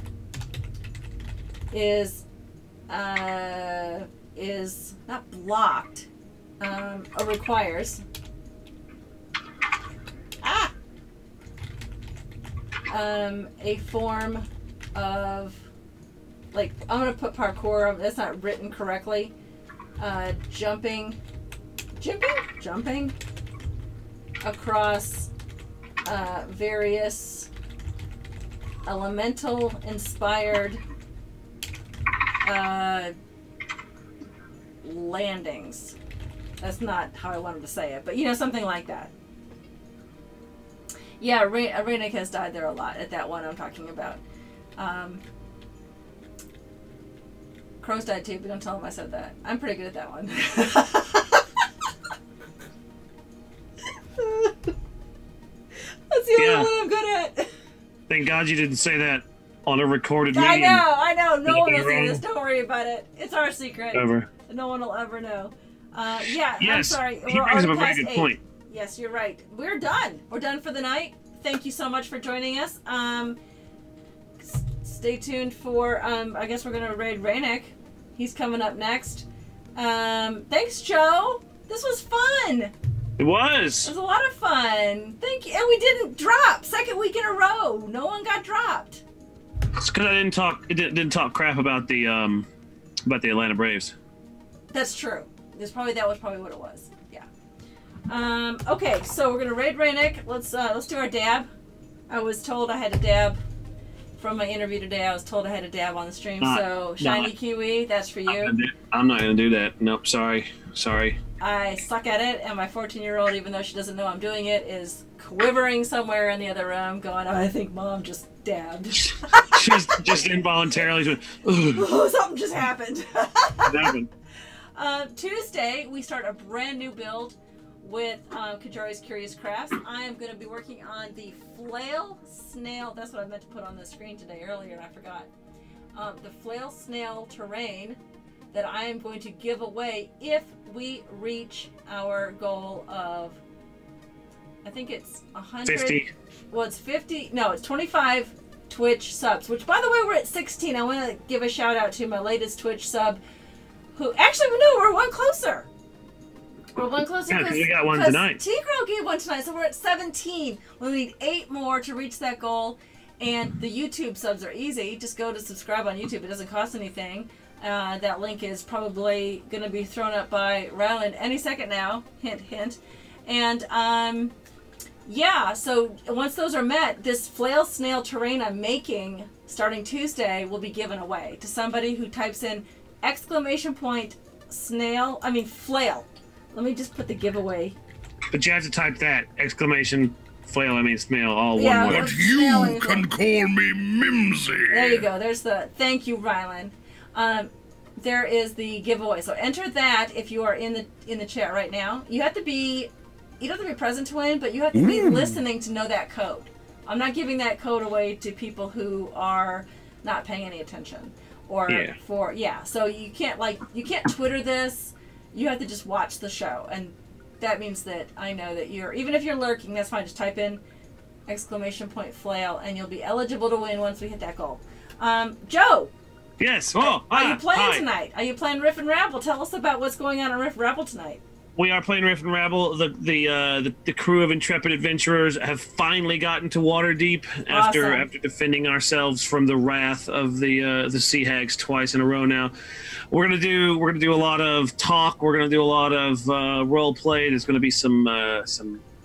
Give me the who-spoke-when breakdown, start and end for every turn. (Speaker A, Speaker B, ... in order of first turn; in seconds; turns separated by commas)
Speaker A: 1.7-2.2, Speaker A: 2.9-6.1, Speaker A: 6.6-8.0, Speaker A: 10.4-10.7, Speaker A: 12.9-15.7, Speaker A: 16.5-19.3, Speaker A: 20.0-21.2, Speaker A: 22.0-23.1, Speaker A: 24.4-25.3, Speaker A: 26.0-27.5, Speaker A: 28.9-30.8, Speaker A: 32.4-33.1, Speaker A: 34.8-36.0, Speaker A: 36.6-39.1, Speaker A: 41.2-44.2, Speaker A: 44.8-45.2, Speaker A: 47.8-51.4, Speaker A: 54.2-54.7, Speaker A: 56.1-57.5, Speaker B: 56.4-56.7, Speaker B: 58.1-60.9, Speaker A: 60.3-73.4, Speaker B: 61.5-62.2, Speaker B: 63.9-64.3, Speaker B: 66.6-68.4, Speaker A: 74.4-82.7, Speaker B: 83.2-83.9, Speaker A: 83.8-89.0, Speaker B: 89.7-92.5, Speaker B: 93.0-93.9, Speaker A: 94.7-97.3, Speaker A: 98.1-101.5, Speaker A: 102.1-103.4, Speaker A: 104.2-108.5, Speaker B: 106.4-107.3, Speaker B: 108.3-111.2, Speaker A: 111.4-120.3, Speaker B: 119.3-121.8, Speaker A: 121.6-123.9, Speaker B: 123.6-124.1, Speaker A: 124.8-135.3, Speaker A: 135.9-138.0, Speaker A: 138.5-143.4, Speaker A: 144.6-146.0, Speaker B: 145.7-146.1, Speaker A: 146.5-153.2, Speaker A: 153.9-155.7, Speaker A: 156.7-174.3, Speaker B: 157.3-158.4, Speaker A: 175.0-187.8, Speaker B: 188.3-192.1, Speaker A: 191.6-193.1, Speaker C: 191.9-195.0, Speaker A: 194.7-220.6, Speaker B: 211.7-211.9, Speaker A: 221.3-225.9, Speaker B: 226.4-227.8, Speaker A: 226.7-231.2, Speaker B: 231.6-242.5, Speaker A: 237.5-238.1, Speaker B: 243.1-248.8